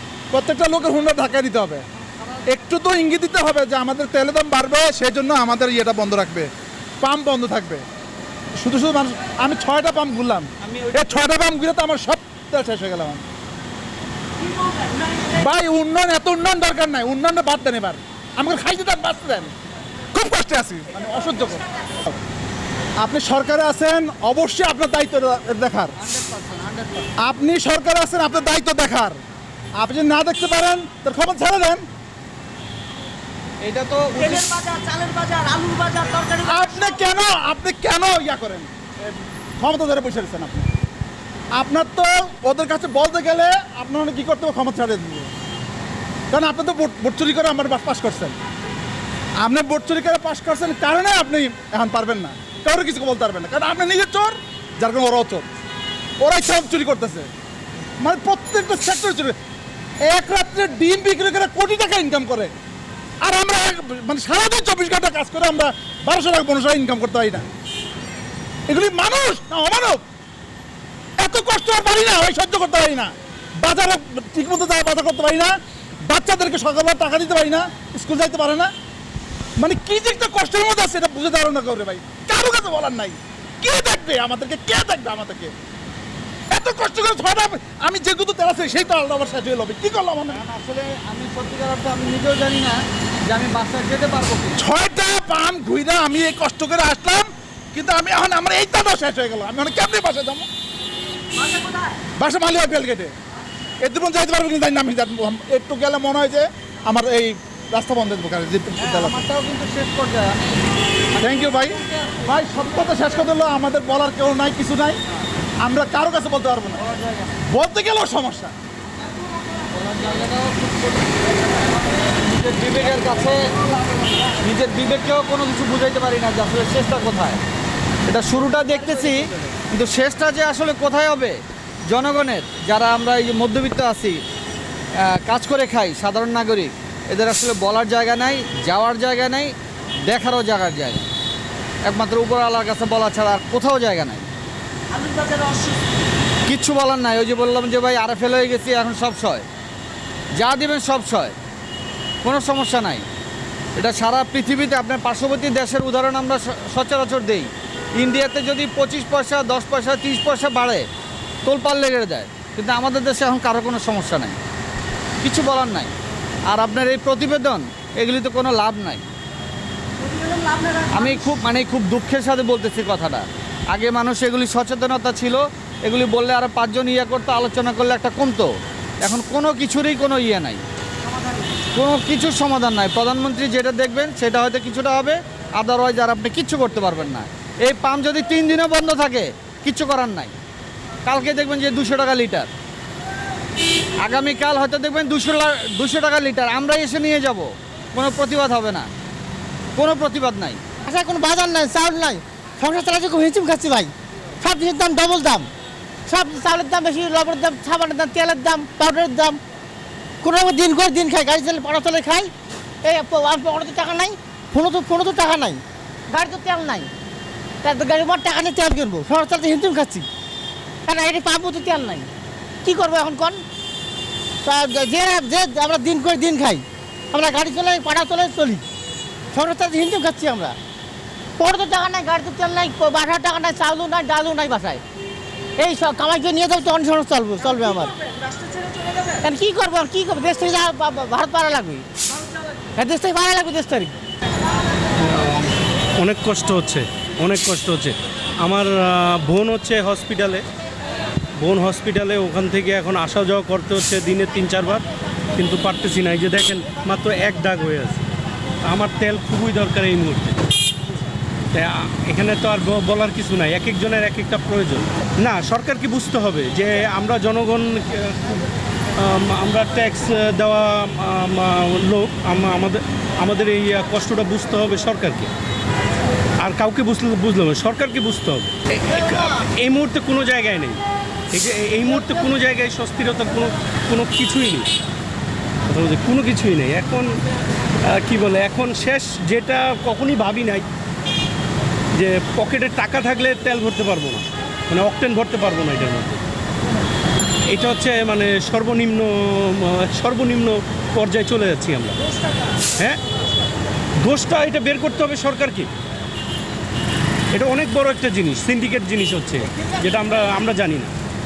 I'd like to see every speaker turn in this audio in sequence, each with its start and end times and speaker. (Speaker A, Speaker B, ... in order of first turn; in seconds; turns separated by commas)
Speaker A: 0.3-1.9, Speaker A: 2.5-6.5, Speaker A: 7.0-7.8, Speaker A: 8.6-13.2, Speaker B: 10.6-11.3, Speaker A: 15.3-19.5, Speaker A: 20.1-21.6, Speaker A: 23.0-25.9, Speaker B: 26.0-27.1, Speaker A: 27.2-29.2, Speaker A: 29.8-31.8, Speaker B: 33.6-34.5, Speaker C: 34.2-37.0, Speaker A: 36.5-38.7, Speaker A: 39.6-40.7, Speaker A: 41.6-45.3, Speaker A: 46.3-48.4, Speaker A: 49.4-55.5, Speaker A: 56.2-57.3, Speaker A: 58.0-59.4, Speaker A: 60.0-62.5, Speaker A: 63.2-67.5, Speaker A: 68.7-70.0, Speaker A: 71.2-78.7, Speaker A: 79.6-85.5, Speaker A: 86.5-90.4, Speaker B: 90.3-94.6, Speaker A: 94.6-100.5, Speaker A: 102.2-103.1, Speaker A: 103.8-109.2, Speaker B: 108.8-110.6, Speaker B: 111.2-112.1, Speaker A: 111.2-115.0, Speaker A: 115.6-116.8, Speaker A: 117.5-118.5, Speaker B: 119.7-121.2, Speaker B: 122.2-123.5, Speaker B: 124.3-127.4, Speaker B: 128.1-134.2, Speaker B: 135.2-139.5, Speaker B: 140.1-141.1, Speaker B: 141.9-144.3, Speaker C: 144.9-145.8, Speaker B: 146.5-149.4, Speaker B: 150.4-151.3, Speaker B: 152.2-153.1, Speaker B: 153.8-160.9, Speaker B: 161.4-164.4, Speaker B: 165.2-165.9, Speaker B: 166.5-169.1, Speaker C: 170.1-171.2, Speaker B: 170.9-178.5, Speaker B: 179.0-180.6, Speaker B: 181.7-190.3, Speaker B: 191.1-192.5, Speaker B: 194.0-198.9, Speaker B: 199.8-200.6, Speaker D: 200.9-205.5, Speaker D: 206.1-209.4, Speaker D: 210.2-212.3, Speaker D: 212.8-216.9, Speaker D: 217.6-220.1, Speaker D: 220.9-222.1, Speaker D: 222.6-223.4, Speaker D: 224.4-228.6, Speaker D: 229.3-230.5, Speaker D: 231.4-234.8, Speaker D: 235.6-237.9, Speaker D: 239.2-241.8, Speaker D: 242.8-243.9, Speaker E: 246.0-250.4, Speaker E: 251.4-254.8, Speaker E: 255.4-258.1, Speaker E: 258.7-260.4, Speaker E: 261.6-268.4, Speaker E: 269.1-275.3, Speaker E: 276.4-280.8, Speaker E: 281.3-284.7, Speaker E: 285.7-287.1, Speaker E: 288.0-290.6, Speaker E: 292.0-296.2, Speaker E: 297.5-299.1, Speaker E: 299.8-302.0, Speaker E: 304.1-305.7, Speaker E: 307.4-310.9